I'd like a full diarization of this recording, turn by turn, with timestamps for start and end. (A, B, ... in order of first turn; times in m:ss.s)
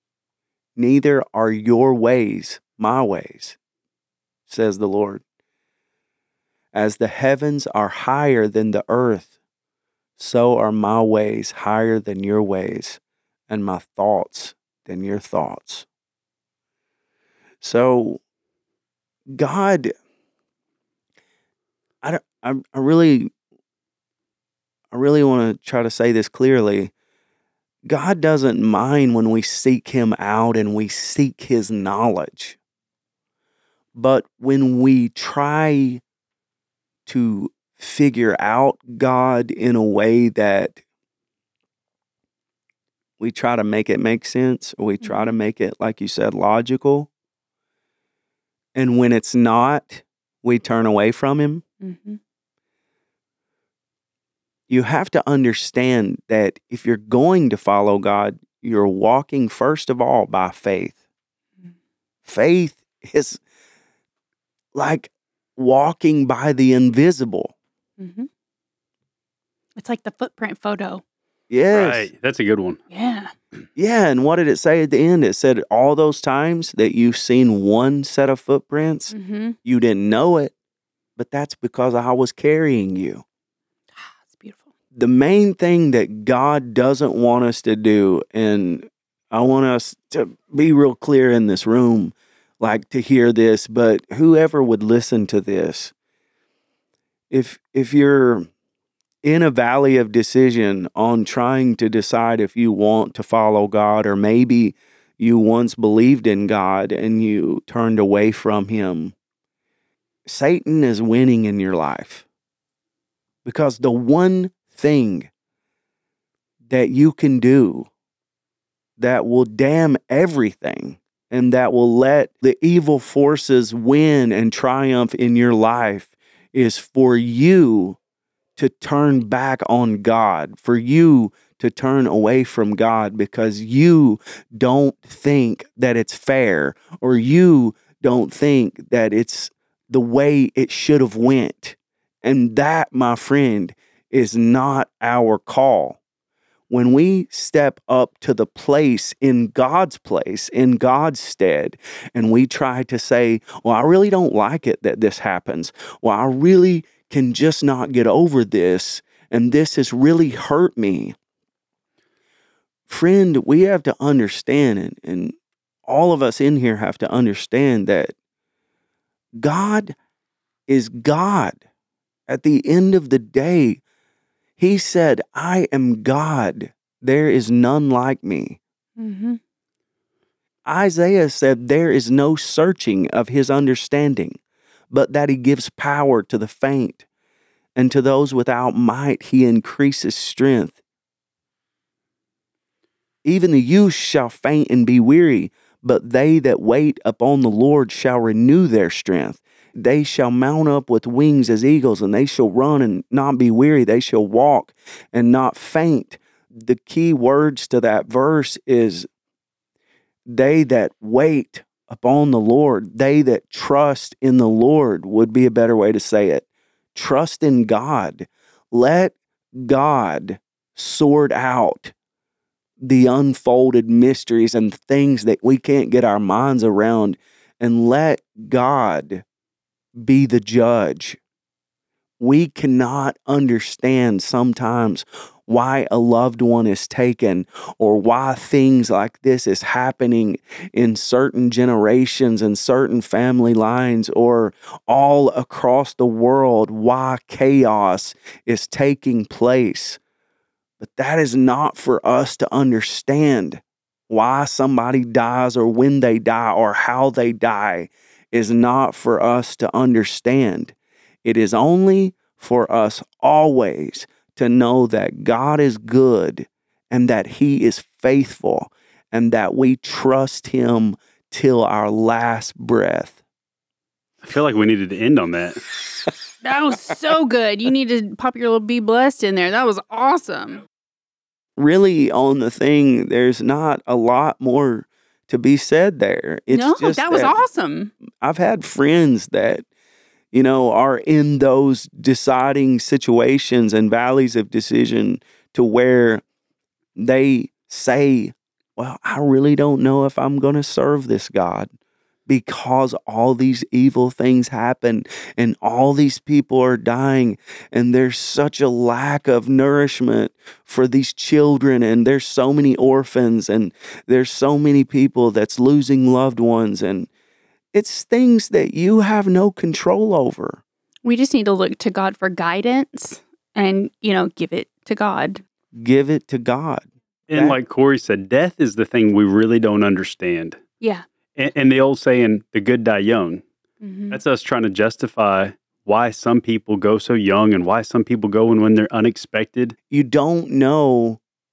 0:00.8-0:03.6 A
0:04.5-0:05.2 A
0:06.7-0:09.3 A
0:10.2-0:15.8 A
0:17.6-0:18.2 A
0:19.3-0:19.9 A
0:22.0-0:23.3 A
0:24.9-0:26.9 A
0:27.9-0:32.6 A
0:33.9-0:36.0 A
0:37.0-0:40.8 A
0:43.2-0:47.1 A
0:45.0-0:45.3 B
0:48.7-0:51.6 A
0:51.8-0:52.2 B
0:54.7-1:01.0 A
1:02.2-1:03.4 A
1:04.7-1:07.5 A
1:08.0-1:08.3 B
1:09.8-1:11.0 B
1:11.5-1:12.1 A
1:11.7-1:12.8 C
1:12.9-1:13.3 B
1:13.8-1:19.1 A
1:19.1-1:19.6 B
1:19.6-1:20.5 A
1:21.2-1:23.2 A
1:24.0-1:24.7 B
1:24.9-1:35.9 A
1:37.3-1:38.5 A
1:39.2-1:49.1 A
1:50.2-1:52.2 A
1:53.4-1:55.3 A
1:56.7-1:57.9 A
1:59.0-2:08.0 A
2:08.6-2:26.0 A
2:26.7-2:41.1 A
2:42.9-2:45.3 A
2:45.8-2:48.1 A
2:49.4-2:49.9 A
2:50.7-2:51.6 A
2:52.3-2:53.8 A
2:54.6-2:58.6 A
2:59.0-2:59.4 B
3:00.6-3:04.4 A
3:04.9-3:07.0 A
3:07.8-3:10.8 A
3:13.2-3:29.1 A
3:30.2-3:41.9 A
3:42.8-3:49.2 A
3:50.0-3:51.2 A
3:52.2-4:10.0 A
4:10.8-4:20.7 A
4:21.2-4:33.2 A
4:34.2-4:35.6 C
4:36.4-4:40.6 B
4:41.6-4:47.4 A
4:46.5-4:47.9 B
4:48.2-4:49.6 A
4:50.3-4:56.2 A
4:57.0-5:01.7 A
5:02.3-5:17.1 A
5:17.7-5:20.6 A
5:21.0-5:25.4 B
5:25.7-5:27.6 A
5:27.3-5:30.6 C
5:30.8-5:31.0 B
5:31.4-5:33.4 C
5:33.8-5:34.2 B
5:34.1-5:39.8 C
5:39.9-5:41.2 A